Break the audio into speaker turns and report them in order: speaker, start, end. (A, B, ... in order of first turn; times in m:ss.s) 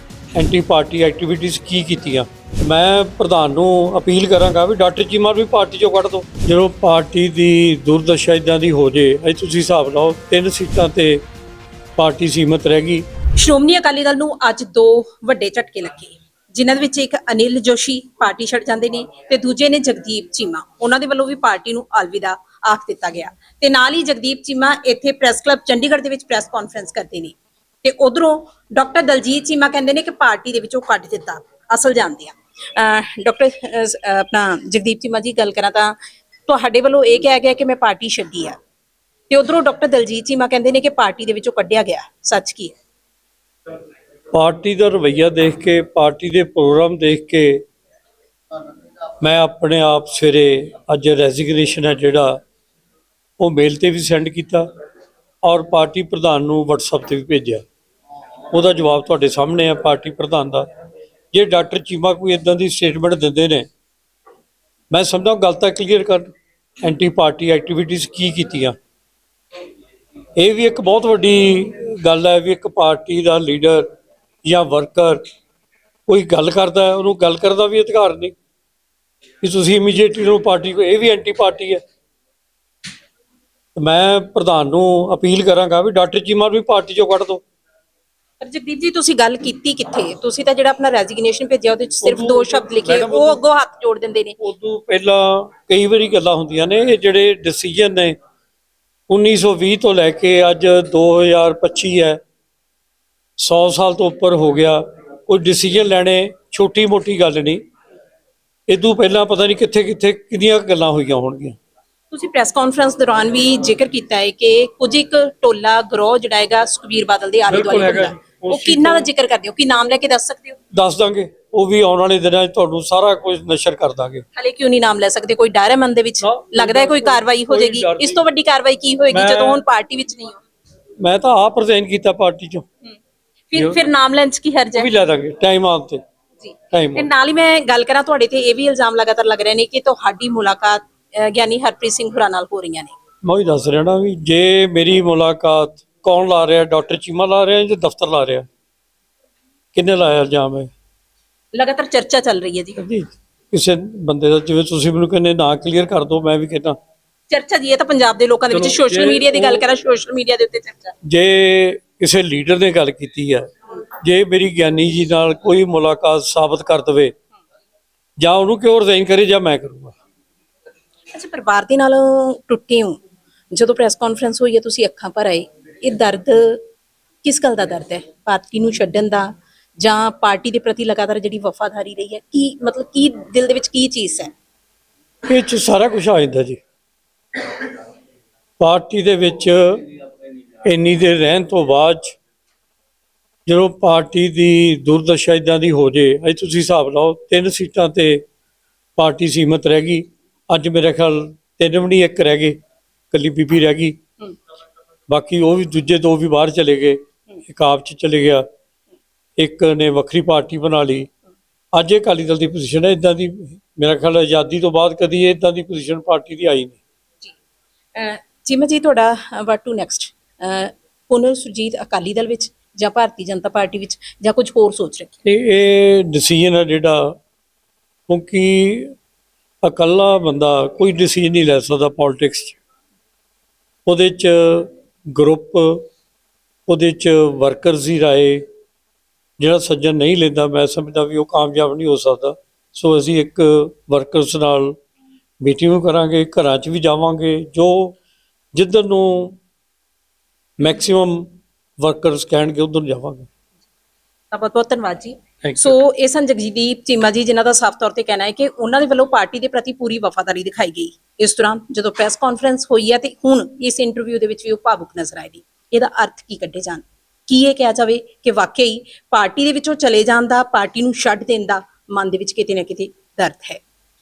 0:00.3-0:11.2 A
0:12.0-0:13.0 A
0:13.4-0:36.0 B
0:36.5-0:38.6 B
0:39.3-0:42.7 B
0:44.3-0:47.6 A
0:49.2-0:52.4 A
0:53.4-0:54.7 A
0:55.4-0:57.6 A
0:58.5-1:00.7 A
1:01.3-1:03.7 A
1:04.9-1:06.3 A
1:06.8-1:08.8 A
1:10.4-1:13.9 A
1:14.4-1:15.2 A
1:16.1-1:18.3 A
1:19.4-1:21.8 A
1:23.8-1:27.4 A
1:28.4-1:34.4 B
1:32.0-1:33.4 A
1:34.4-1:38.2 A
1:39.1-1:42.2 A
1:43.4-1:47.6 A
1:48.7-1:51.6 A
1:52.1-2:00.6 B
1:57.5-1:59.1 A
2:00.7-2:04.2 A
2:04.4-2:10.4 B
2:06.2-2:08.2 A
2:09.1-2:09.6 A
2:11.0-2:12.7 A
2:13.5-2:14.9 B
2:14.7-2:16.0 A
2:16.4-2:22.9 B
2:16.7-2:17.1 A
2:23.2-2:28.4 A
2:29.7-2:30.7 A
2:31.5-2:32.8 B
2:32.8-2:36.8 A
2:37.3-2:40.9 B
2:38.5-2:39.6 A
2:41.0-2:43.5 A
2:44.0-2:47.1 A
2:48.2-2:49.9 A
2:51.1-2:53.0 B
2:53.5-2:56.6 B
2:57.2-3:04.3 B
3:05.3-3:06.6 A
3:08.6-3:09.8 A
3:10.6-3:12.2 A
3:13.4-3:18.2 A
3:19.0-3:22.6 A
3:23.1-3:24.0 A
3:25.1-3:28.4 A
3:29.4-3:31.1 A
3:31.7-3:36.8 A
3:37.9-3:45.2 B
3:45.2-3:47.1 A
3:48.1-3:48.9 A
3:49.6-3:52.6 A
3:53.8-3:55.8 A
3:56.7-3:58.4 A
3:59.4-4:04.8 A
4:05.4-4:08.0 A
4:08.5-4:09.4 A
4:10.6-4:13.3 A
4:14.3-4:33.6 B
4:15.4-4:15.8 A